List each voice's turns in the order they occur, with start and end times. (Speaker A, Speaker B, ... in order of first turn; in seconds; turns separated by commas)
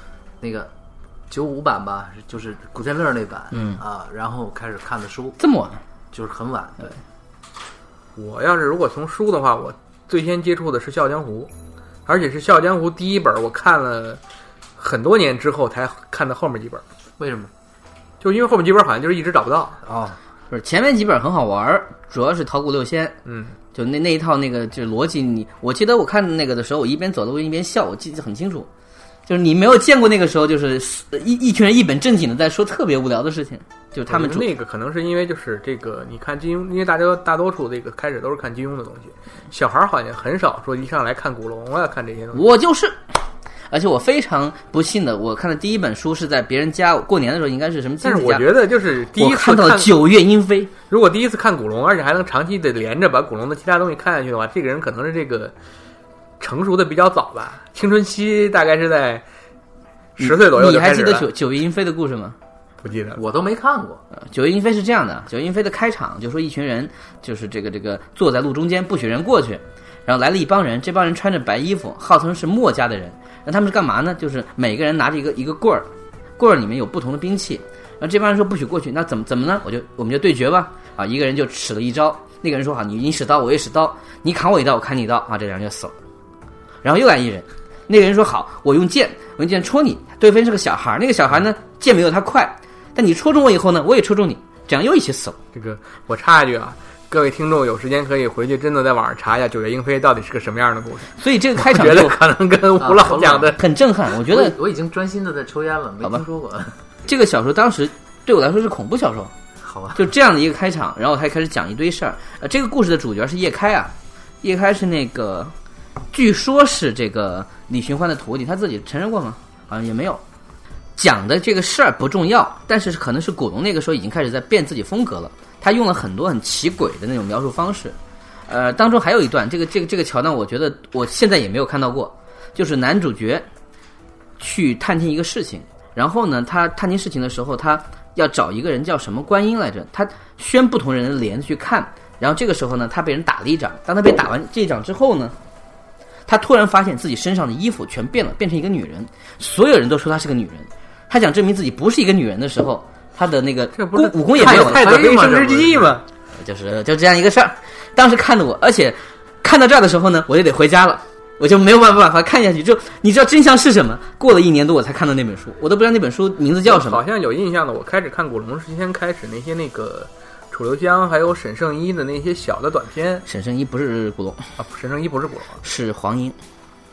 Speaker A: 0.4-0.7, Speaker A: 1.3-5.4, Speaker B: 3.5-3.8, Speaker B: 5.4-5.8, Speaker A: 6.1-7.0, Speaker C: 8.2-11.5, Speaker C: 12.1-14.2, Speaker C: 14.8-16.8, Speaker A: 17.2-17.5, Speaker C: 18.2-19.8, Speaker A: 19.8-20.2, Speaker B: 20.5-23.1, Speaker C: 23.2-23.6, Speaker B: 23.7-28.7, Speaker B: 29.3-34.5, Speaker C: 34.0-42.4, Speaker B: 42.3-43.0, Speaker B: 43.7-48.5, Speaker C: 48.0-49.9, Speaker B: 49.1-50.7, Speaker C: 50.9-55.5, Speaker C: 56.4-59.2, Speaker C: 60.2-61.3, Speaker B: 60.2-62.4, Speaker C: 62.8-63.2, Speaker A: 63.1-64.0, Speaker B: 64.1-85.9, Speaker B: 86.8-95.4, Speaker C: 95.5-103.6, Speaker B: 101.2-102.2, Speaker A: 102.8-103.6, Speaker B: 103.5-104.5, Speaker A: 104.2-106.8, Speaker B: 107.1-109.3, Speaker A: 109.6-110.1, Speaker B: 109.9-115.5, Speaker B: 116.1-120.2, Speaker B: 121.0-133.4, Speaker B: 134.4-145.3, Speaker B: 146.3-155.1, Speaker C: 153.8-156.0, Speaker A: 154.4-156.0, Speaker B: 156.3-167.0, Speaker C: 166.6-173.2, Speaker B: 173.3-174.5, Speaker C: 174.6-175.6, Speaker B: 175.6-176.3